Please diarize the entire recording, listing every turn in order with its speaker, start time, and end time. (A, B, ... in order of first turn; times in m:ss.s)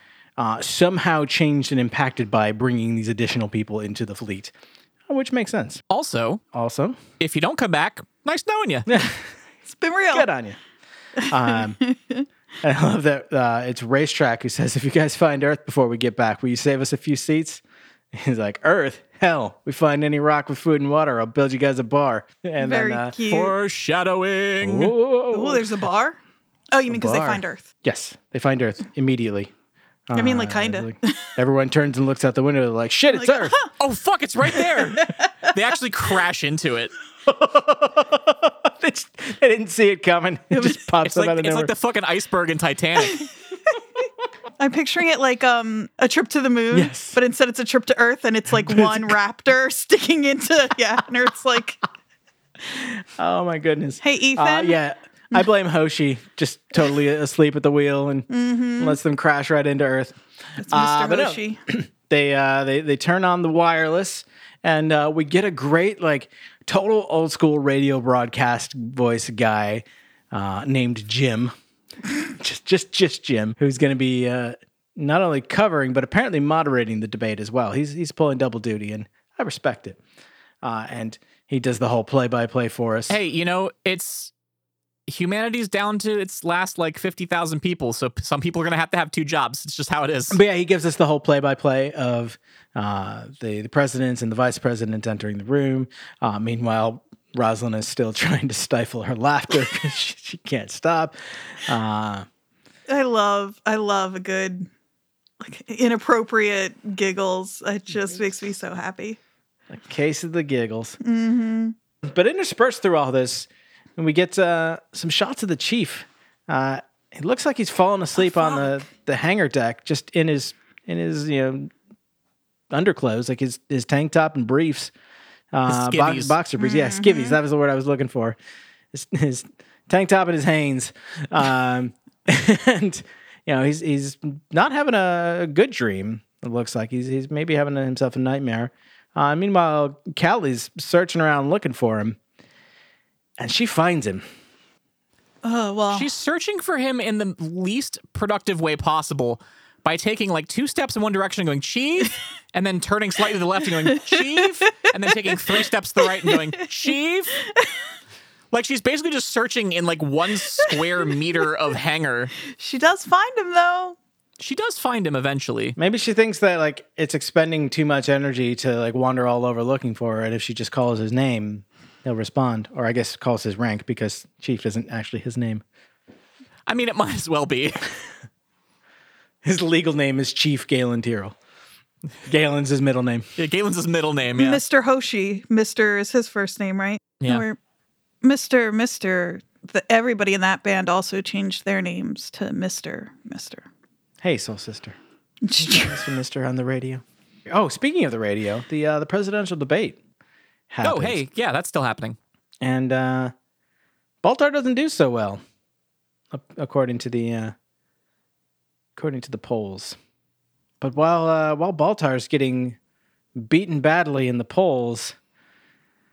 0:00.4-0:04.5 A
0:05.1-0:05.8 A
0:05.9-0:06.4 B
0:06.5-0:07.0 A
0:07.2-0:08.9 B
0:08.9-0:09.2 A
0:09.7-0:10.3 C
0:10.1-0:10.6 A
0:11.2-0:12.2 C
0:11.3-0:11.8 A
0:12.6-0:17.6 A
0:18.1-0:23.2 A
0:22.6-0:23.6 C
0:23.3-0:24.9 B
0:24.6-0:25.7 A
0:25.3-0:26.2 C
0:26.7-0:27.6 C
0:26.9-0:29.5 A
0:30.1-0:33.6 A
0:30.1-0:31.2 C
0:33.1-0:33.6 C
0:33.8-0:36.9 B
0:37.2-0:41.7 A
0:40.5-0:40.8 C
0:41.0-0:43.3 B
0:44.6-0:51.8 C
0:46.7-0:47.2 A
0:48.6-0:49.2 A
0:52.7-1:00.2 A
0:54.0-0:54.8 C
0:58.3-0:59.0 C
1:00.6-1:01.6 C
1:00.7-1:11.5 A
1:12.2-1:20.0 A
1:20.6-1:23.2 A
1:23.1-1:24.3 B
1:25.1-1:30.4 B
1:30.3-1:42.3 A
1:42.9-1:44.7 C
1:45.4-1:49.2 C
1:49.7-1:51.0 A
1:51.0-1:51.8 C
1:52.1-2:01.7 A
1:58.3-1:58.7 C
2:02.7-2:04.9 A
2:05.5-2:08.4 A
2:05.7-2:06.4 B
2:06.6-2:07.4 C
2:08.9-2:22.2 A
2:23.4-2:24.2 A
2:25.4-2:26.1 C
2:25.9-2:37.4 B
2:33.9-2:34.9 C
2:36.3-2:36.7 C
2:38.5-2:42.3 B
2:42.5-2:44.0 C
2:44.4-2:45.8 B
2:45.8-2:55.6 A
2:56.7-2:57.8 B
2:59.4-3:01.4 A
3:02.3-3:03.3 A
3:03.4-3:04.6 B
3:04.4-3:07.6 C
3:07.2-3:07.5 B
3:08.2-3:13.7 C
3:14.2-3:15.0 A
3:15.4-3:16.0 C
3:15.6-3:20.0 A
3:20.7-3:21.2 A
3:20.8-3:22.2 B
3:22.6-3:23.3 A
3:24.2-3:25.4 A
3:26.3-3:27.6 A
3:29.0-3:30.0 A
3:30.8-3:32.8 A
3:33.4-3:35.2 A